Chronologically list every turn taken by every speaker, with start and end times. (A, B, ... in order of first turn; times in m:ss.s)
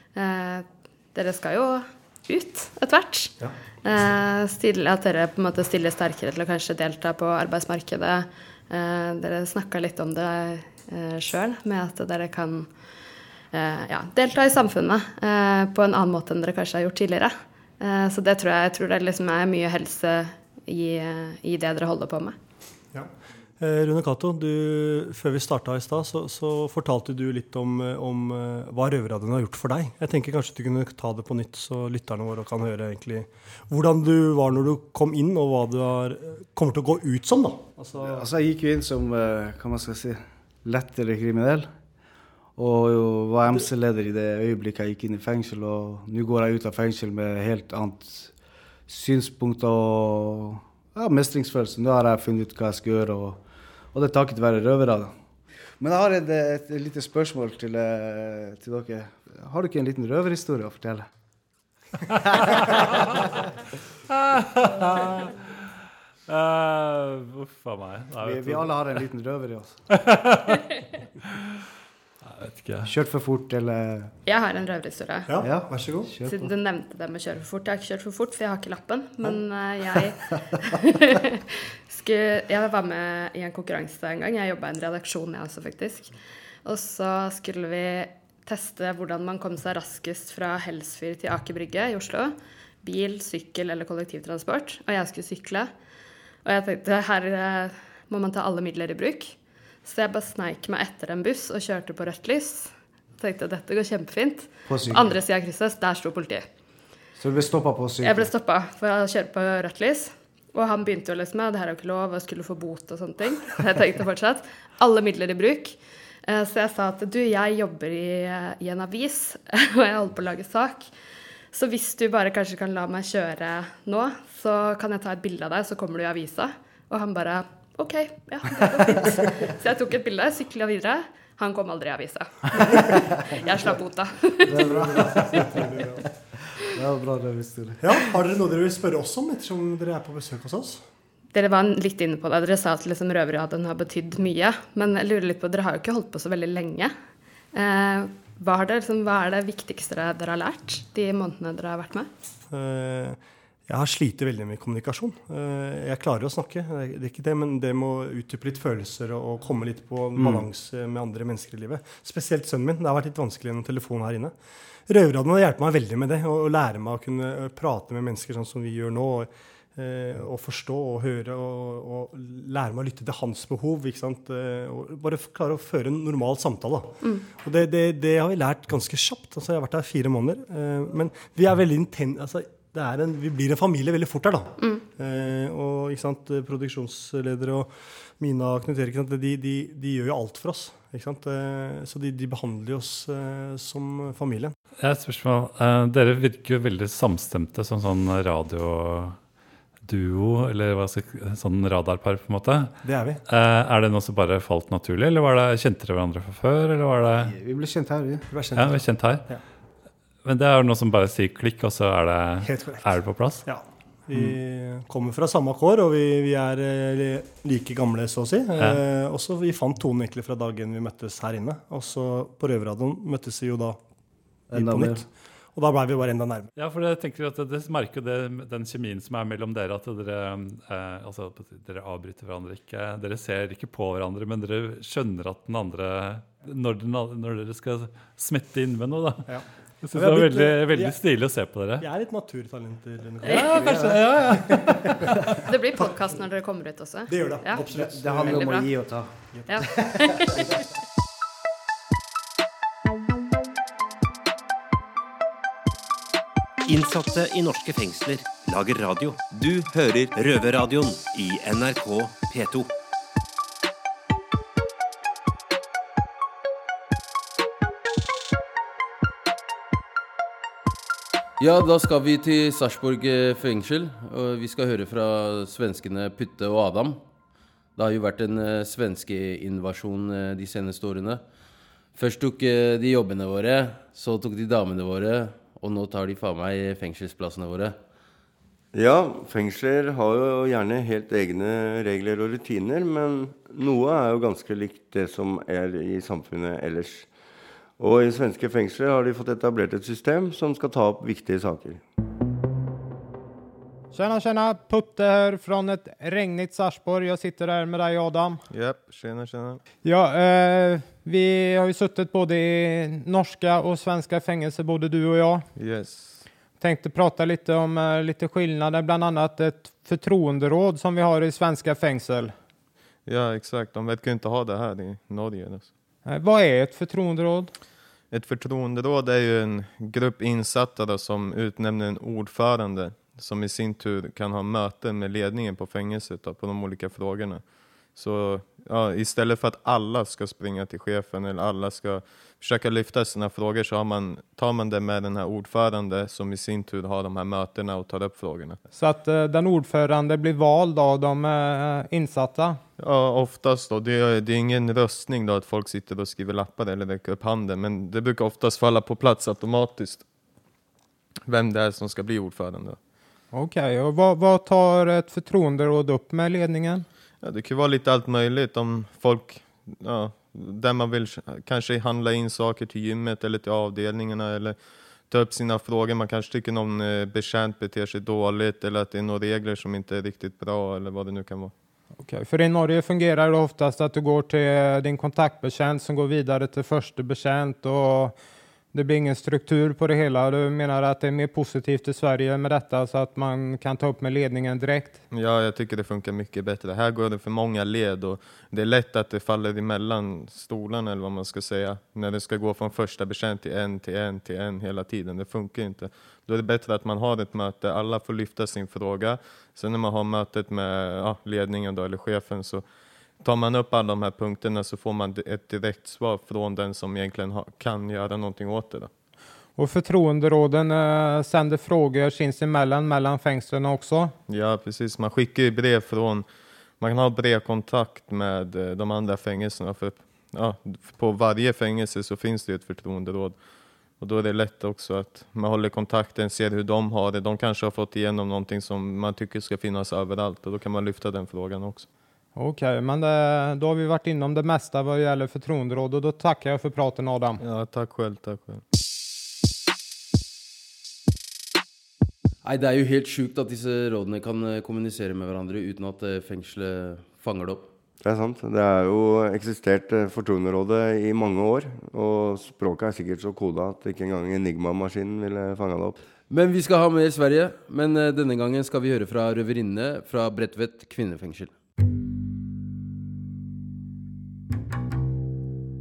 0:00.2-0:12.7 A
0:13.5-0:22.4 A
0:22.9-0:38.3 B
0:38.0-0:41.7 C
0:42.6-0:48.3 C
0:48.9-0:53.4 C
0:53.9-0:55.2 C
0:55.8-1:01.1 C
1:02.4-1:02.8 C
1:04.1-1:05.3 D
1:06.3-1:08.8 D
1:08.2-1:09.8 C
1:09.9-1:10.4 D
1:12.3-1:12.9 D
1:12.8-1:14.1 C
1:14.3-1:15.3 A
1:15.3-1:16.1 B
1:15.4-1:16.5 C
1:16.2-1:35.7 A
1:36.4-1:46.5 A
1:44.6-1:45.1 C
1:47.2-1:48.3 C
1:48.0-2:00.9 A
2:01.5-2:15.5 A
2:14.5-2:15.9 C
2:14.6-2:16.0 B
2:16.6-2:18.1 C
2:17.8-2:20.8 B
2:21.3-2:26.9 A
2:27.5-2:32.1 A
2:32.5-2:44.3 B
2:40.2-2:40.5 C
2:44.9-3:14.5 B
2:57.0-2:57.3 A
3:04.6-3:04.8 A
3:14.8-3:19.2 D
3:19.9-3:22.8 D
3:22.8-3:23.2 B
3:23.3-3:27.3 D
3:27.2-3:28.3 C
3:28.3-3:29.4 B
3:28.6-3:29.3 D
3:30.2-3:33.5 D
3:32.4-3:43.8 B
3:44.5-3:45.1 C
3:44.5-3:46.5 B
3:46.6-4:01.9 D
3:59.3-4:01.0 B
4:01.8-4:05.2 B
4:03.2-4:03.5 A
4:03.4-4:04.8 D
4:03.5-4:04.9 C
4:05.5-4:08.7 A
4:07.1-4:08.6 B
4:07.6-4:10.0 C
4:09.3-4:09.6 B
4:09.5-4:10.5 A
4:16.6-4:22.7 E
4:31.4-4:37.0 F
4:37.8-4:41.2 F
4:42.0-4:47.8 F
4:48.7-4:57.1 G
4:57.8-5:01.8 G
5:03.9-5:08.4 H
5:08.5-5:09.6 I
5:09.8-5:15.5 H
5:15.6-5:16.2 I
5:16.6-5:22.3 H
5:23.1-5:25.7 I
5:26.0-5:27.5 H
5:28.1-5:37.4 I
5:38.0-5:48.6 I
5:48.8-5:52.6 H
5:52.8-6:00.0 I
6:01.3-6:02.8 I
6:03.3-6:06.9 H
6:07.2-6:14.6 I
6:15.1-6:21.5 I
6:22.0-6:28.2 H
6:28.7-6:35.0 H
6:35.1-6:52.6 I
6:53.2-6:58.9 I
6:59.6-7:04.2 H
7:04.3-7:06.3 I
7:06.8-7:13.4 I
7:14.0-7:21.9 I
7:22.4-7:27.4 H
7:27.4-7:28.6 I
7:32.4-7:37.6 F
7:38.0-7:46.0 G
7:46.3-7:51.5 F